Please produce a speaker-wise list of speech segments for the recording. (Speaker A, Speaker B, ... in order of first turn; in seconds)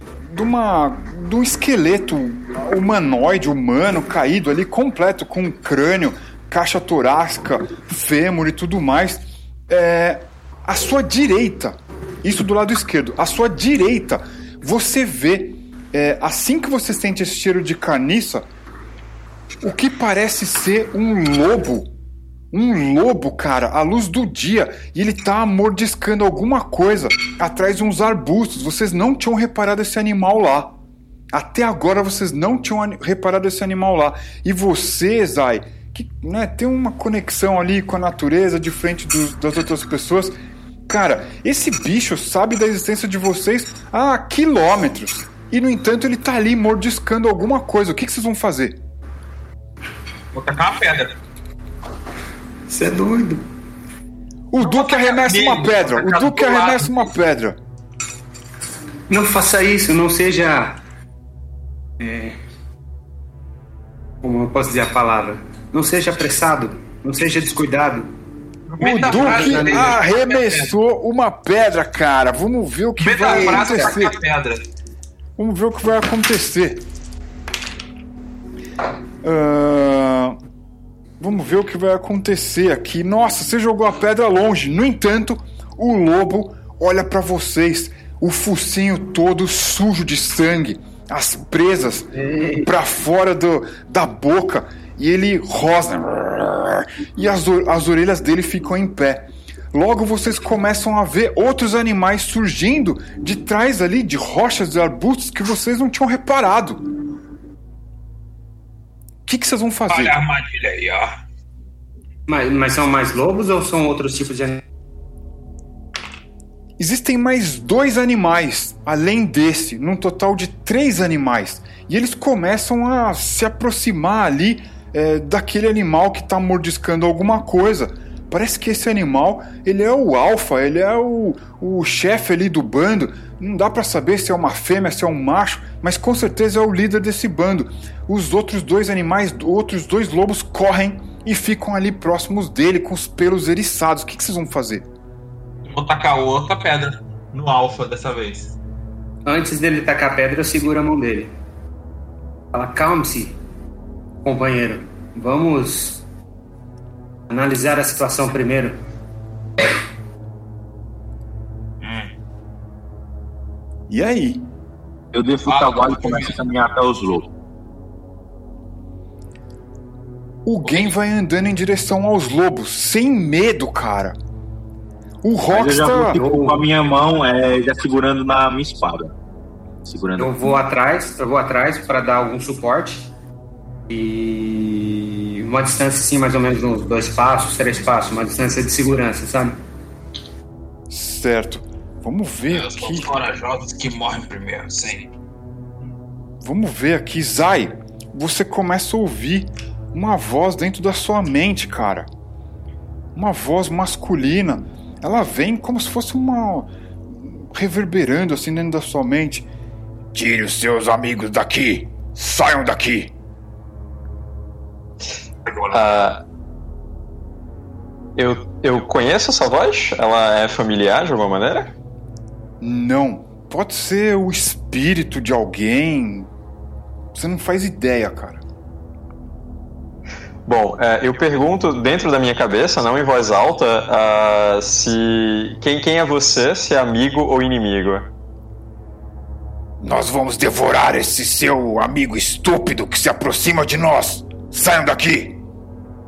Speaker A: 0.3-18.4, 19.6-21.9, 22.5-30.8, 31.3-40.4, 40.9-48.8, 54.5-57.6, 68.8-74.2, 75.4-76.9, 79.2-80.4, 81.2-92.1, 92.6-106.9, 109.3-110.2, 116.8-144.9, 163.9-164.5, 170.5-174.2, 175.2-176.2, 190.9-193.1, 196.4-202.1, 203.2-209.5, 210.2-213.1, 222.6-226.3, 227.1-228.4, 239.8-245.4
Speaker B: 50.3-51.1, 54.6-57.1, 68.7-70.7, 73.0-74.7, 109.9-111.2, 145.7-148.5, 161.8-162.1, 165.5-166.4, 170.6-170.9, 192.5-195.1, 215.5-215.8
Speaker C: 52.7-53.5, 59.1-60.8, 62.0-62.4, 64.2-68.1, 69.1-70.0, 73.3-73.8, 92.2-92.7, 112.3-114.7, 149.2-151.3, 152.5-153.4, 154.2-156.0, 157.3-158.8, 176.1-176.6, 180.2-183.1, 183.9-189.6
Speaker D: 165.1-167.3, 175.5-179.1, 179.8-180.6
Speaker E: 215.7-216.2, 218.2-221.7, 230.4-238.1